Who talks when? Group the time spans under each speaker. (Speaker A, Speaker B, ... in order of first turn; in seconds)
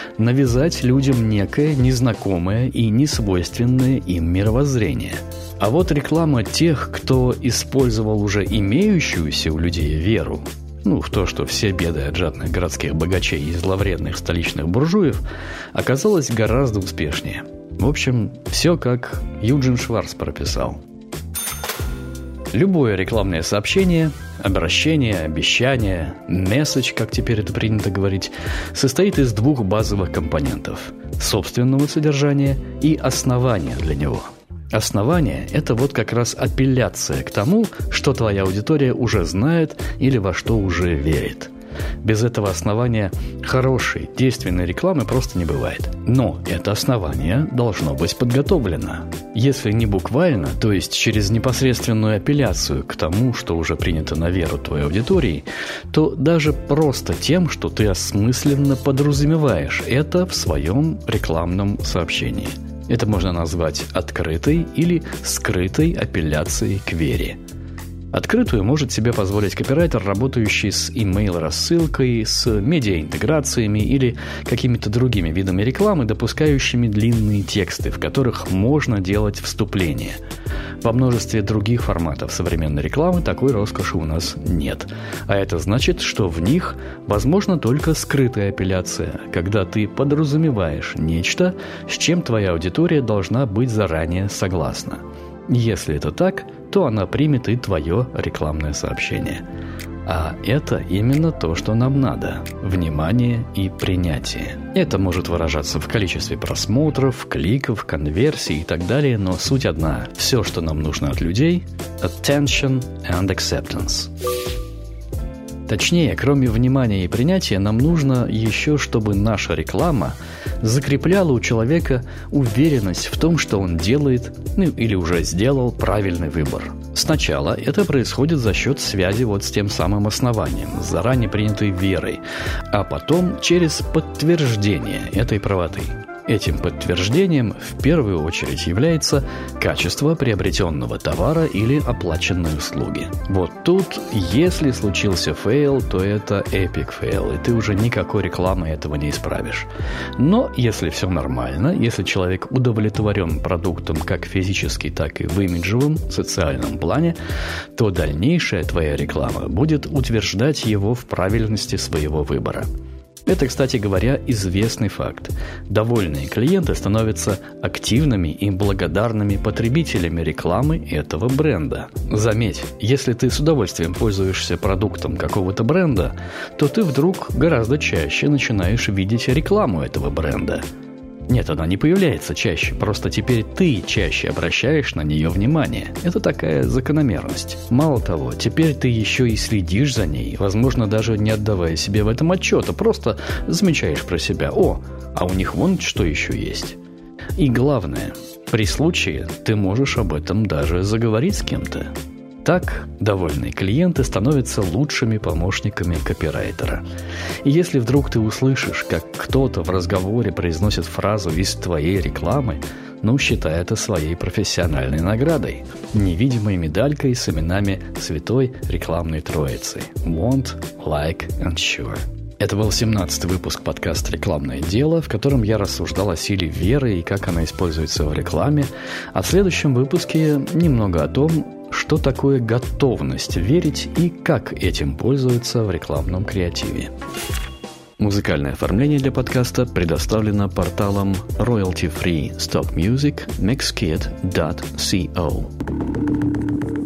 Speaker A: 0.2-15.2, 15.7-20.8, 22.5-41.5, 42.0-67.4, 68.1-80.2, 80.8-99.4, 100.1-114.1, 115.7-157.2, 157.8-162.7, 163.3-180.6, 181.3-196.8, 197.4-201.9, 202.4-206.8, 207.4-236.9, 238.0-245.5